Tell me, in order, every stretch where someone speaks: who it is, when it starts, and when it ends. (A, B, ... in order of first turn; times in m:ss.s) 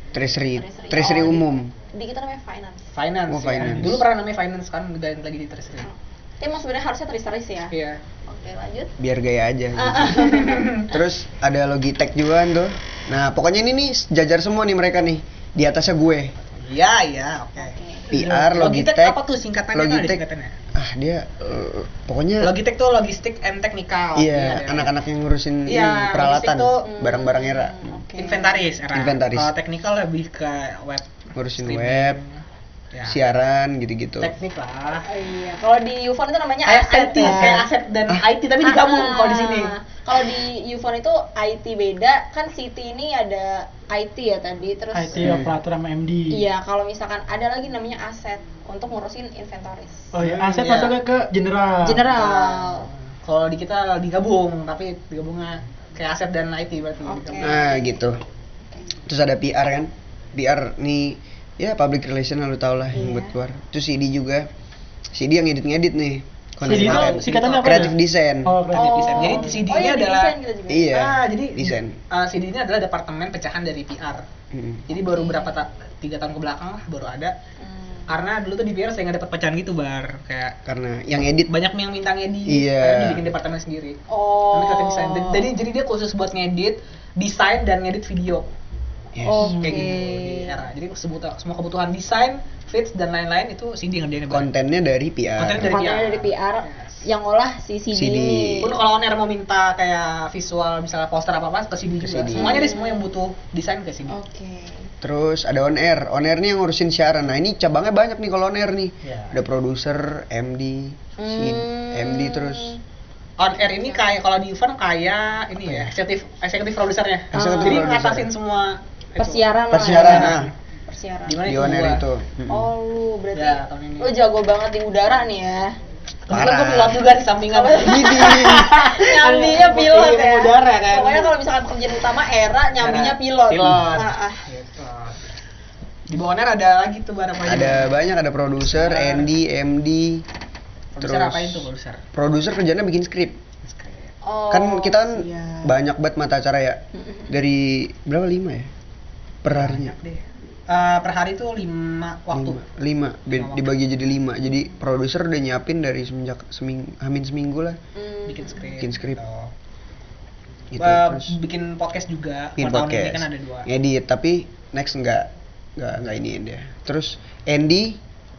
0:00.1-0:01.7 A
0:00.6-0:02.9 B
0:00.9-0:01.4 C
0:03.0-0:05.9 C
0:03.3-0:04.0 A
0:05.8-0:07.7 B
0:07.7-0:08.0 C
0:08.2-0:08.9 B
0:09.0-0:16.3 A
0:09.8-0:10.9 B
0:10.3-0:10.9 C
0:16.6-0:17.8 C
0:17.6-0:18.1 B
0:18.1-0:18.8 D
0:18.1-0:19.2 A
0:18.6-0:20.5 C
0:19.7-0:20.2 A
0:20.7-0:22.6 A
0:22.4-0:24.9 C
0:24.2-0:27.9 A
0:25.7-0:26.8 C
0:26.8-0:28.6 B
0:28.2-0:32.4 C
0:28.9-0:29.5 A
0:31.4-0:32.2 A
0:32.9-0:33.2 C
0:33.1-0:34.3 A
0:34.2-0:35.1 C
0:35.1-0:37.7 B
0:36.7-0:39.7 C
0:38.6-0:45.3 B
0:44.9-0:46.4 D
0:45.2-0:45.5 A
0:45.2-0:45.5 C
0:46.3-0:50.1 B
0:50.1-0:52.0 D
0:50.2-0:51.0 C
0:51.8-0:52.9 B
0:52.1-0:57.6 C
0:57.0-0:58.0 B
0:57.4-0:58.2 A
0:59.1-1:04.5 A
1:03.0-1:03.4 B
1:05.1-1:08.6 A
1:06.6-1:08.0 C
1:06.6-1:09.6 D
1:08.7-1:10.3 C
1:08.7-1:11.0 B
1:10.7-1:12.0 A
1:10.9-1:14.2 C
1:14.5-1:14.8 A
1:14.9-1:17.4 C
1:15.0-1:15.5 B
1:17.6-1:18.1 B
1:18.1-1:20.6 C
1:20.7-1:21.5 A
1:21.5-1:24.0 C
1:22.5-1:23.2 A
1:24.1-1:25.5 B
1:24.5-1:28.5 C
1:29.2-1:29.6 A
1:29.2-1:30.6 B
1:29.5-1:34.5 C
1:34.3-1:35.8 A
1:35.4-1:37.0 C
1:35.6-1:38.7 B
1:37.9-1:38.7 A
1:38.6-1:44.1 C
1:42.0-1:42.7 A
1:42.3-1:43.1 B
1:44.1-1:44.9 B
1:45.0-1:52.8 A
1:49.0-1:49.4 C
1:51.2-1:52.8 B
1:53.4-2:00.5 C
1:53.4-1:54.1 B
1:55.6-1:55.9 A
1:57.3-1:58.3 A
1:57.4-1:57.8 B
1:59.2-2:01.5 B
1:59.7-2:00.5 A
2:01.3-2:02.0 C
2:01.4-2:02.7 A
2:02.5-2:05.8 B
2:03.4-2:04.1 C
2:06.3-2:11.3 C
2:06.3-2:07.0 A
2:07.5-2:14.4 B
2:07.8-2:08.7 A
2:12.8-2:15.2 C
2:16.1-2:17.9 C
2:17.4-2:20.2 A
2:18.7-2:19.3 C
2:21.0-2:22.0 C
2:21.0-2:23.4 A
2:23.6-2:24.1 C
2:24.2-2:25.7 B
2:24.5-2:28.7 A
2:26.9-2:27.3 B
2:29.4-2:30.0 A
2:29.5-2:32.6 C
2:32.3-2:37.8 A
2:33.3-2:33.7 C
2:38.0-2:38.6 B
2:38.3-2:39.5 C
2:38.8-2:39.2 A
2:40.7-2:41.3 A
2:40.8-2:43.7 C
2:42.6-2:48.0 A